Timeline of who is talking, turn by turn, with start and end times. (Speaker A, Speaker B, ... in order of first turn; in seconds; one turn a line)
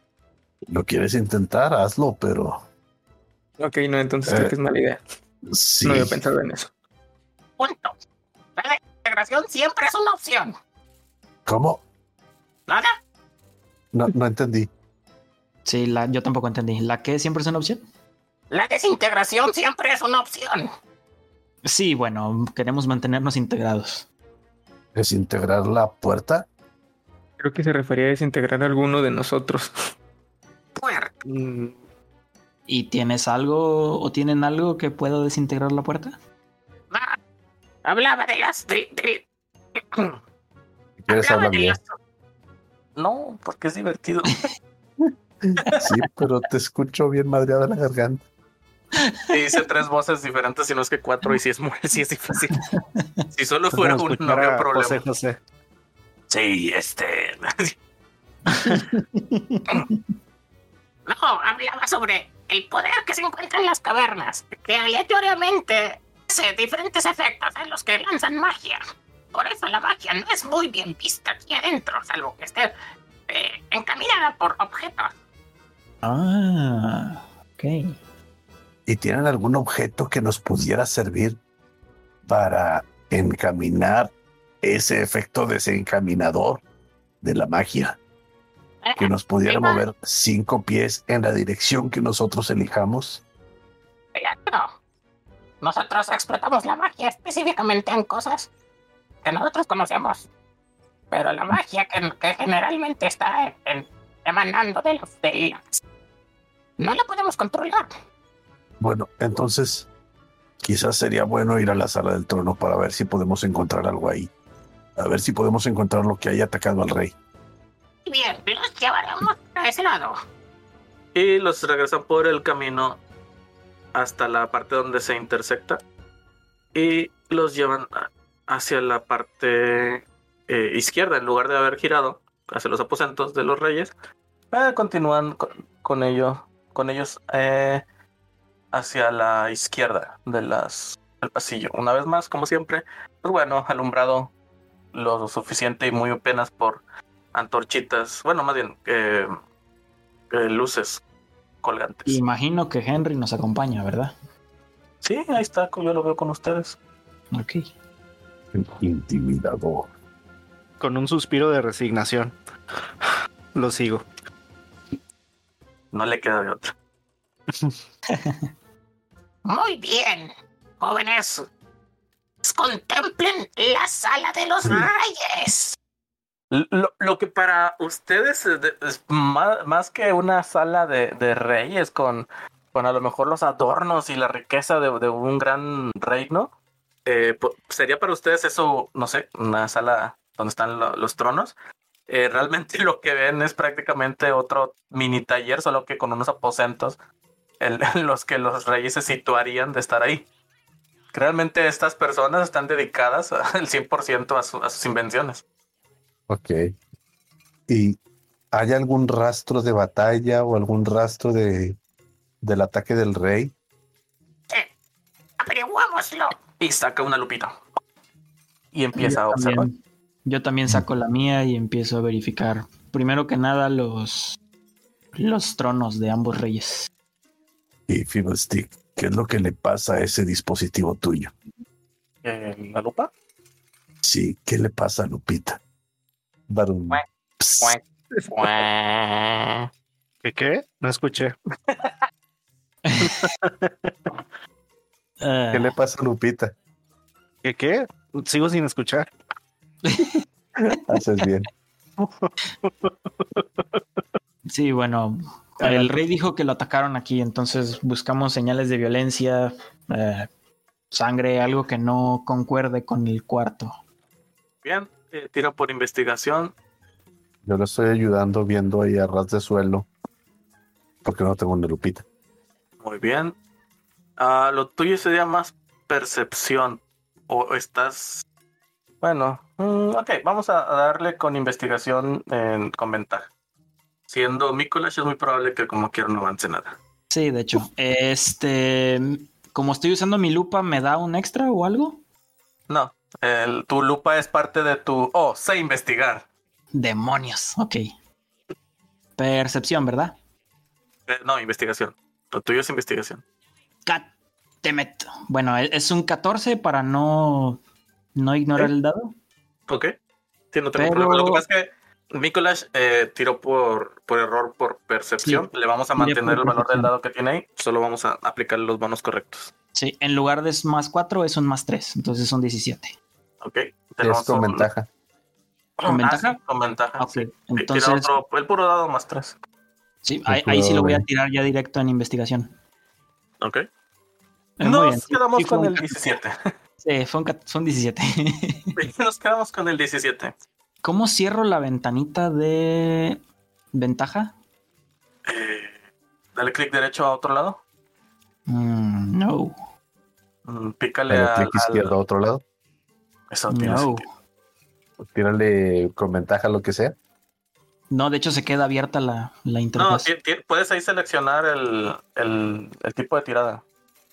Speaker A: 0.7-2.6
Speaker B: 3.6-5.0
Speaker A: 4.3-4.5
Speaker A: 5.5-6.2
Speaker B: 5.8-6.7
Speaker C: 7.6-8.0
Speaker C: 8.6-10.6
Speaker A: 11.5-11.8
Speaker C: 12.7-12.9
Speaker A: 13.9-14.7
Speaker D: 15.7-17.8
Speaker C: 18.5-20.7
Speaker D: 21.6-24.1
Speaker A: 24.9-26.5
Speaker B: 27.4-29.7
Speaker C: 30.8-31.1
Speaker E: 31.2-31.8
Speaker D: 32.7-36.2
Speaker C: 36.9-37.2
Speaker C: 37.9-39.3
Speaker A: 41.0-41.8
Speaker C: 41.1-41.9
Speaker F: 43.0-44.5
Speaker A: 45.8-48.2
Speaker F: 49.3-52.5
Speaker D: 52.5-53.2
Speaker F: 53.3-55.0
Speaker E: 53.7-55.4
Speaker F: 56.3-57.8
Speaker D: 58.5-60.0
Speaker C: 61.1-68.8
Speaker C: 69.3-72.7
Speaker C: 73.3-75.1
Speaker D: 76.0-78.0
Speaker A: 78.9-81.4
Speaker A: 82.3-86.6
Speaker A: 87.2-88.0
Speaker C: 88.8-89.8
Speaker A: 89.0-93.2
Speaker C: 94.2-94.7
Speaker C: 95.6-98.5
Speaker C: 99.2-100.3
Speaker C: 101.1-105.8
Speaker C: 106.8-107.9
Speaker A: 108.8-109.9
Speaker A: 110.6-114.3
Speaker A: 115.0-117.1
Speaker C: 118.1-120.2
Speaker F: 121.2-123.0
Speaker F: 123.9-125.8
Speaker F: 126.8-133.9
Speaker F: 134.5-137.8
Speaker F: 138.7-144.3
Speaker F: 144.9-146.8
Speaker F: 147.3-149.3
Speaker F: 150.3-151.0
Speaker F: 151.6-152.2
Speaker D: 152.1-154.1
Speaker F: 155.0-156.8
Speaker D: 157.3-157.7
Speaker A: 158.5-159.9
Speaker E: 160.8-162.3
Speaker E: 163.0-164.1
Speaker F: 165.9-166.7
Speaker D: 168.1-168.5
Speaker C: 169.5-171.5
Speaker C: 172.4-175.8
Speaker F: 176.5-186.5
Speaker F: 187.1-191.5
Speaker F: 192.1-197.0
Speaker F: 197.6-200.3
Speaker F: 201.1-205.4
Speaker A: 206.3-206.7
Speaker A: 207.7-208.0
Speaker A: 208.5-211.8
Speaker A: 212.4-213.5
Speaker C: 215.4-216.4
Speaker F: 216.6-217.6
Speaker F: 218.7-219.7
Speaker D: 219.0-224.4
Speaker D: 225.2-226.9
Speaker A: 227.9-231.3
Speaker F: 232.2-233.1
Speaker A: 234.0-235.6
Speaker A: 236.5-237.7
Speaker C: 238.3-239.7
Speaker E: 240.2-241.3
Speaker D: 242.8-243.3
Speaker E: 243.0-244.2
Speaker D: 245.2-245.8
Speaker A: 245.5-246.5
Speaker E: 247.4-249.1
Speaker D: 249.8-250.2
Speaker A: 250.9-251.5
Speaker E: 252.0-254.0
Speaker D: 254.5-260.3
Speaker E: 255.6-255.9
Speaker D: 260.9-263.8
Speaker F: 264.6-266.5
Speaker A: 267.4-269.9
Speaker A: 271.0-272.1
Speaker F: 272.8-273.4
Speaker F: 274.2-278.2
Speaker F: 279.0-283.3
Speaker F: 284.1-286.8
Speaker D: 287.1-292.0
Speaker F: 292.7-296.3
Speaker D: 296.7-297.9
Speaker D: 299.2-300.2
Speaker F: 301.1-303.2
Speaker D: 304.6-307.6
Speaker D: 308.2-309.1
Speaker F: 309.7-309.9
Speaker F: 310.5-319.5
Speaker D: 310.8-311.4
Speaker D: 316.0-316.9
Speaker D: 319.8-322.9
Speaker F: 323.4-324.7
Speaker A: 324.0-324.9
Speaker F: 325.8-329.4
Speaker D: 325.9-326.4
Speaker D: 327.0-328.1
Speaker D: 330.0-332.5
Speaker A: 330.3-331.1
Speaker D: 334.6-336.1
Speaker F: 334.6-336.4
Speaker D: 336.8-338.7
Speaker F: 338.8-340.4
Speaker D: 340.8-343.2
Speaker D: 343.7-344.4
Speaker F: 345.3-345.8
Speaker F: 346.4-347.6
Speaker D: 348.5-349.5
Speaker F: 350.5-351.9
Speaker A: 351.1-352.4
Speaker F: 353.3-354.1
Speaker D: 353.5-354.1
Speaker A: 355.0-357.0
Speaker D: 357.9-360.1
Speaker F: 359.8-363.6